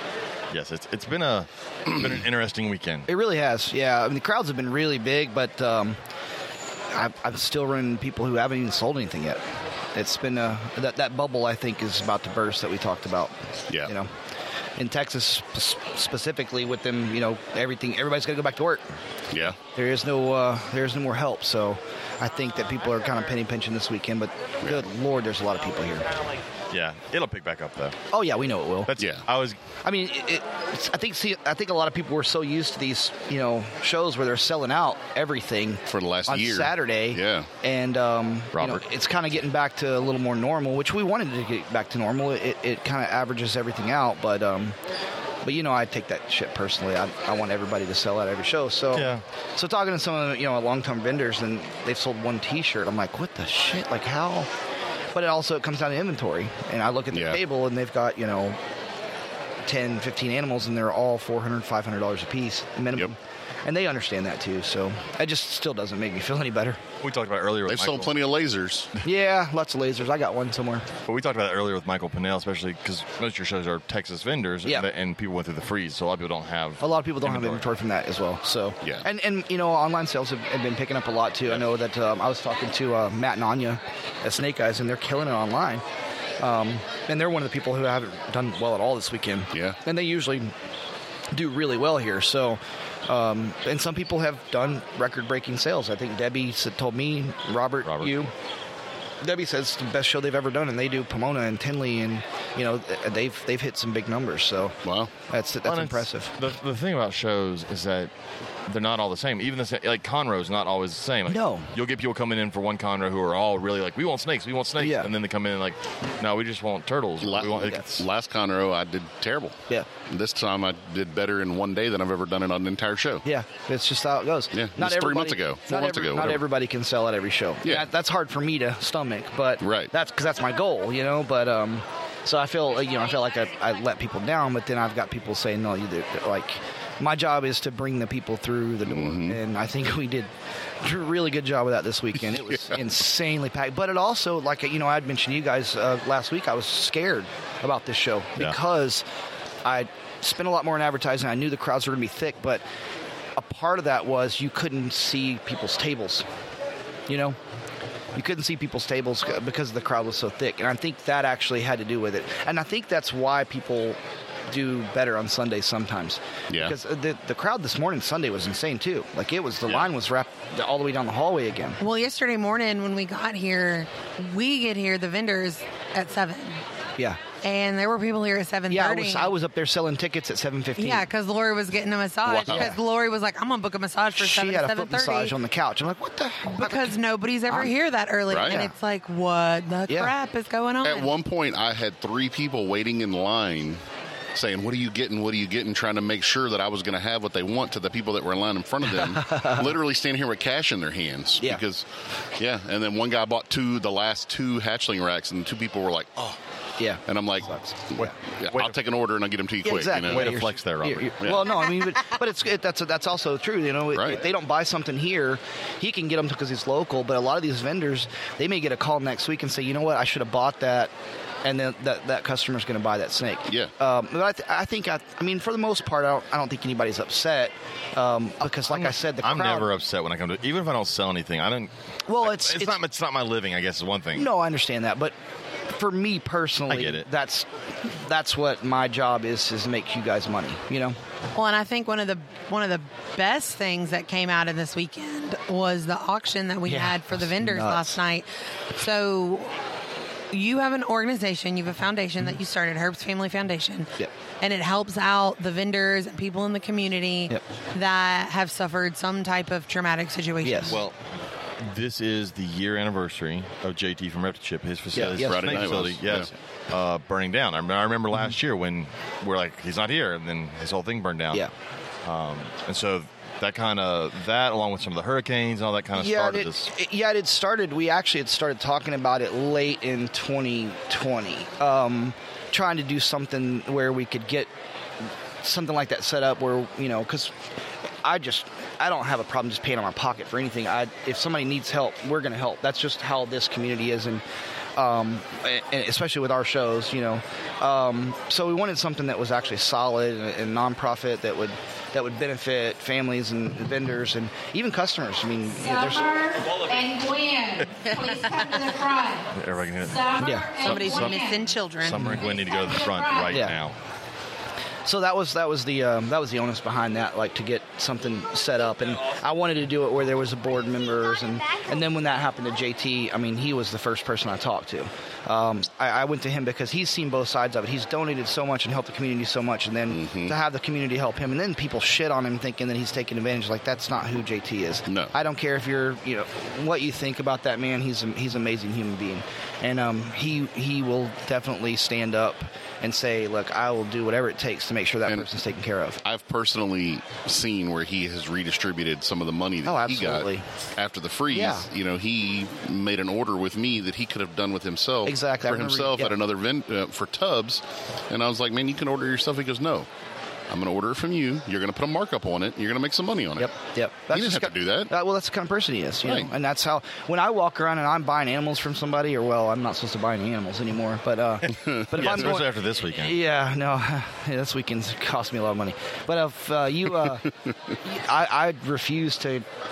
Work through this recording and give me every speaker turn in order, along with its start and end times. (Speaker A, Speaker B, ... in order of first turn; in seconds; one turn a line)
Speaker A: 0.5-3.1
Speaker B: 3.1-6.0
Speaker B: 6.9-9.4
Speaker B: 9.9-14.1
Speaker B: 14.8-19.0
Speaker B: 19.6-26.2
Speaker A: 26.7-28.0
Speaker B: 28.1-28.9
Speaker A: 28.9-29.6
Speaker C: 29.0-29.3
Speaker B: 29.8-44.8
Speaker C: 35.9-37.5
Speaker A: 38.5-38.8
Speaker B: 45.4-54.5
Speaker A: 48.9-49.2
Speaker B: 55.1-58.6
Speaker C: 57.1-57.4
Speaker B: 59.7-66.8
Speaker A: 67.0-68.1
Speaker C: 67.7-68.9
Speaker B: 69.0-70.9
Speaker A: 71.1-77.7
Speaker B: 76.8-85.8
Speaker B: 86.4-90.5
Speaker C: 89.5-89.8
Speaker B: 91.3-98.3
Speaker A: 97.8-98.2
Speaker B: 99.2-104.8
Speaker C: 104.8-105.1
Speaker B: 105.3-106.3
Speaker A: 105.7-108.1
Speaker A: 108.7-118.1
Speaker B: 111.3-111.7
Speaker B: 114.8-115.1
Speaker C: 117.2-123.2
Speaker B: 123.2-140.3
Speaker C: 124.5-126.4
Speaker C: 129.6-129.9
Speaker C: 138.9-139.4
Speaker B: 140.8-149.1
Speaker C: 142.5-142.8
Speaker B: 149.6-152.6
Speaker B: 153.4-156.3
Speaker B: 157.1-157.4
Speaker B: 158.2-171.8
Speaker C: 166.5-166.8
Speaker A: 169.7-169.9
Speaker D: 171.8-176.6
Speaker D: 177.4-179.3
Speaker B: 178.7-181.1
Speaker D: 180.8-185.3
Speaker B: 182.3-182.8
Speaker B: 184.2-187.0
Speaker D: 186.6-191.1
Speaker C: 188.3-188.6
Speaker B: 188.4-188.7
Speaker B: 189.9-190.1
Speaker C: 190.8-193.8
Speaker C: 194.3-206.4
Speaker B: 199.1-199.8
Speaker B: 206.8-208.1
Speaker C: 207.1-210.3
Speaker A: 208.0-208.8
Speaker B: 209.6-220.9
Speaker A: 210.0-211.4
Speaker C: 211.2-211.5
Speaker C: 213.9-214.2
Speaker B: 221.4-229.7
Speaker A: 228.7-234.3
Speaker B: 232.1-232.8
Speaker B: 234.1-235.2
Speaker B: 235.7-241.0
Speaker A: 236.7-237.1
Speaker D: 241.3-249.6
Speaker B: 246.7-248.0
Speaker D: 250.3-253.9
Speaker D: 254.4-260.8
Speaker B: 260.4-260.8
Speaker A: 260.7-261.0
Speaker A: 261.6-271.5
Speaker B: 264.9-265.6
Speaker C: 265.2-266.3
Speaker A: 272.0-276.7
Speaker B: 276.0-284.5
Speaker B: 285.4-287.4
Speaker B: 288.0-294.2
Speaker B: 294.8-306.2
Speaker E: 305.7-309.2
Speaker D: 306.6-306.9
Speaker D: 307.7-309.0
Speaker A: 309.3-313.8
Speaker E: 310.0-311.0
Speaker B: 310.2-310.7
Speaker D: 310.6-312.2
Speaker B: 311.9-312.2
Speaker E: 312.8-313.3
Speaker B: 313.3-313.6
Speaker B: 314.9-346.0
Speaker C: 329.9-330.4
Speaker C: 334.9-335.1
Speaker C: 346.0-359.9
Speaker B: 349.6-350.5
Speaker B: 351.3-351.7
Speaker B: 355.1-356.1
Speaker C: 360.5-364.9
Speaker B: 363.4-377.2
Speaker C: 366.1-366.3
Speaker C: 371.5-372.4
Speaker A: 371.9-373.2
Speaker B: 377.9-379.5